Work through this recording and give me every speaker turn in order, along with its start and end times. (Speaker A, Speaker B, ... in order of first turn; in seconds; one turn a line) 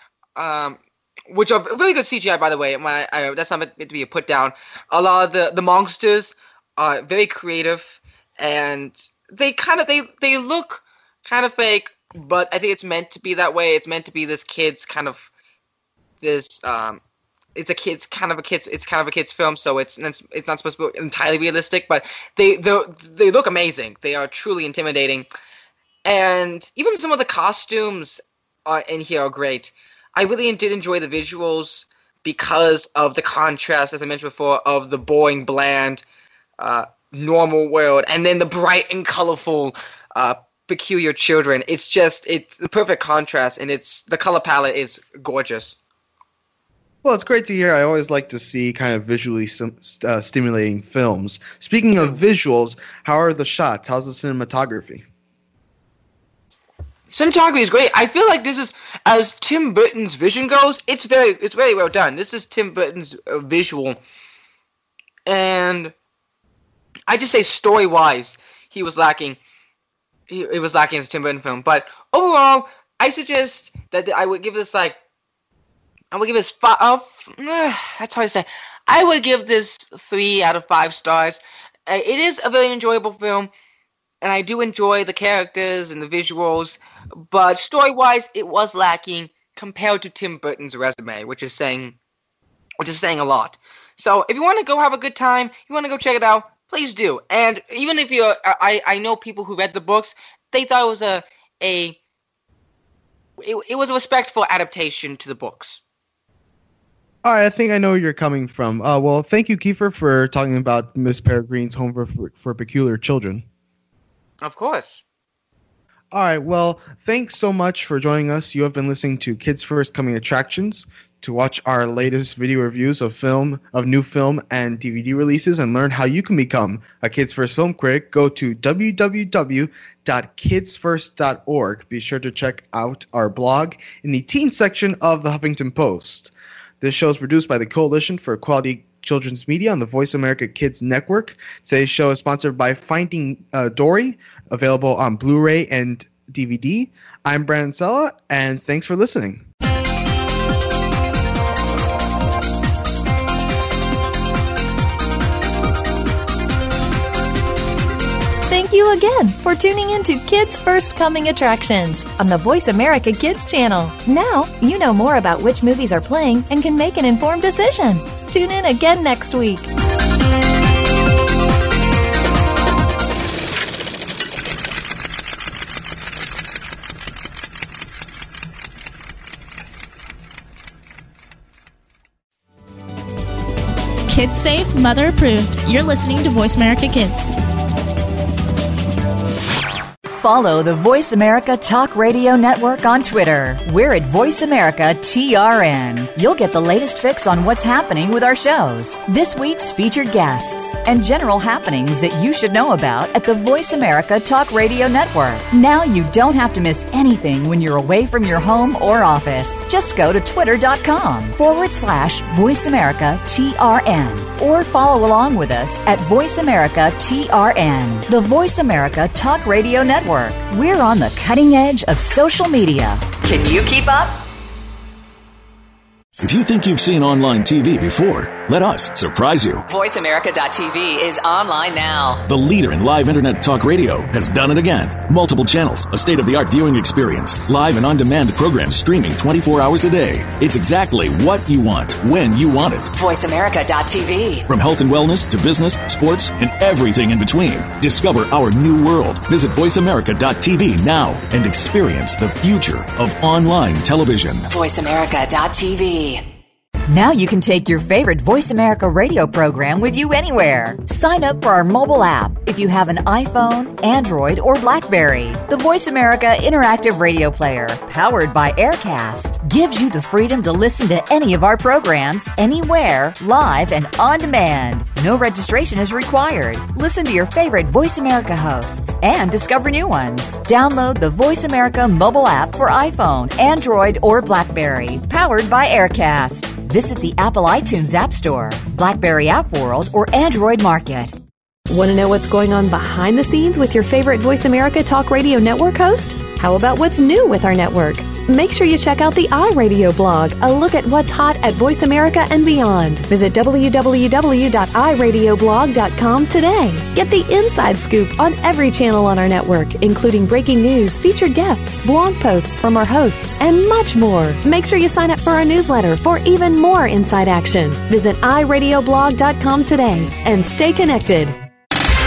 Speaker A: 0.4-15.3
Speaker A: 16.2-17.0
Speaker A: 17.6-25.3
Speaker A: 26.1-36.0
Speaker A: 36.6-45.8
Speaker B: 47.0-55.0
Speaker A: 57.1-64.0
Speaker A: 65.3-65.9
Speaker A: 67.1-69.4
Speaker A: 70.3-75.0
Speaker A: 76.1-83.5
Speaker A: 84.2-92.0
Speaker A: 92.8-102.0
Speaker A: 103.4-105.8
Speaker B: 107.2-113.4
Speaker A: 114.4-115.0
Speaker B: 116.1-149.4
Speaker C: 158.5-169.7
Speaker D: 184.1-187.3
Speaker E: 190.2-224.2
Speaker F: 226.2-229.6
Speaker G: 229.7-232.2
Speaker F: 232.3-242.9
Speaker G: 242.9-244.4
Speaker F: 244.5-254.5
Speaker G: 254.5-256.2
Speaker E: 256.9-291.1
Speaker H: 291.7-321.4